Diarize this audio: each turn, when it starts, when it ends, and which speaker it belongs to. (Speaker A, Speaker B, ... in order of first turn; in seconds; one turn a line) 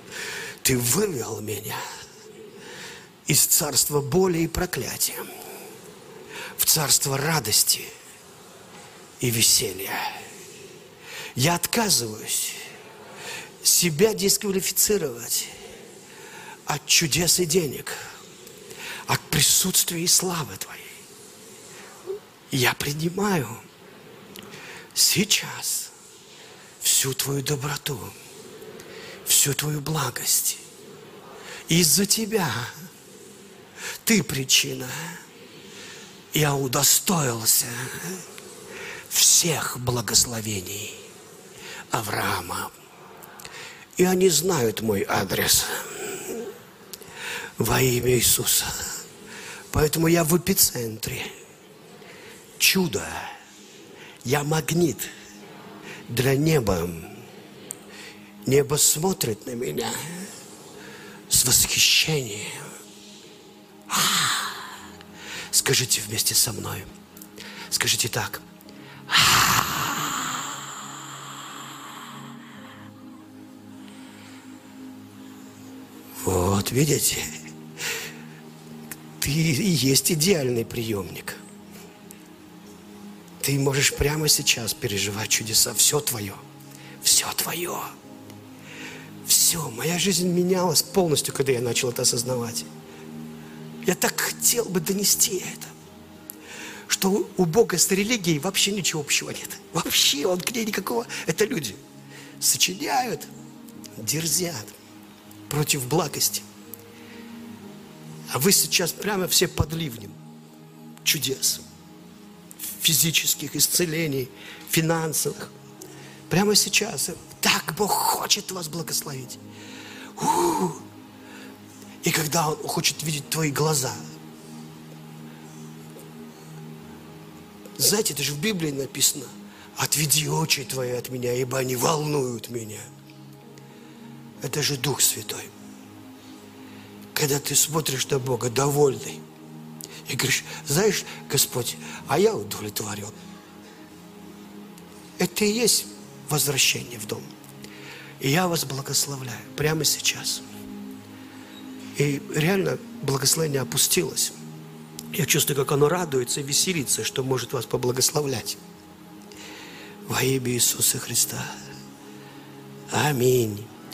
Speaker A: 0.6-1.8
Speaker A: 3.2-5.3
Speaker A: 6.5-7.9
Speaker A: 9.2-10.2
Speaker A: 11.3-12.6
Speaker A: 13.6-15.5
Speaker A: 16.6-18.0
Speaker A: 19.1-20.9
Speaker A: 22.5-23.6
Speaker A: 24.9-25.9
Speaker A: 26.8-28.1
Speaker A: 29.2-30.6
Speaker A: 31.7-32.7
Speaker A: 34.0-35.2
Speaker A: 36.3-38.2
Speaker A: 39.1-41.0
Speaker A: 41.9-42.7
Speaker A: 44.0-46.5
Speaker A: 47.6-49.0
Speaker A: 49.7-51.3
Speaker A: 52.6-53.4
Speaker A: 54.2-55.1
Speaker A: 56.1-57.2
Speaker A: 58.5-60.3
Speaker A: 61.3-62.7
Speaker A: 63.9-64.6
Speaker A: 65.5-66.9
Speaker A: 67.7-68.4
Speaker A: 69.1-70.3
Speaker A: 76.2-77.3
Speaker A: 79.2-81.4
Speaker A: 83.4-86.4
Speaker A: 87.0-87.9
Speaker A: 89.2-92.7
Speaker A: 93.8-95.7
Speaker A: 96.9-101.8
Speaker A: 102.4-103.3
Speaker A: 104.0-104.8
Speaker A: 105.5-106.5
Speaker A: 108.3-110.2
Speaker A: 111.0-111.6
Speaker A: 112.8-115.5
Speaker A: 116.3-119.4
Speaker A: 120.2-120.8
Speaker A: 122.0-124.0
Speaker A: 127.8-132.8
Speaker A: 134.4-135.5
Speaker A: 137.1-139.2
Speaker A: 140.1-143.1
Speaker A: 145.2-147.3
Speaker A: 148.2-150.4
Speaker A: 151.9-154.4
Speaker A: 155.1-158.6
Speaker A: 160.1-161.5
Speaker A: 162.9-163.7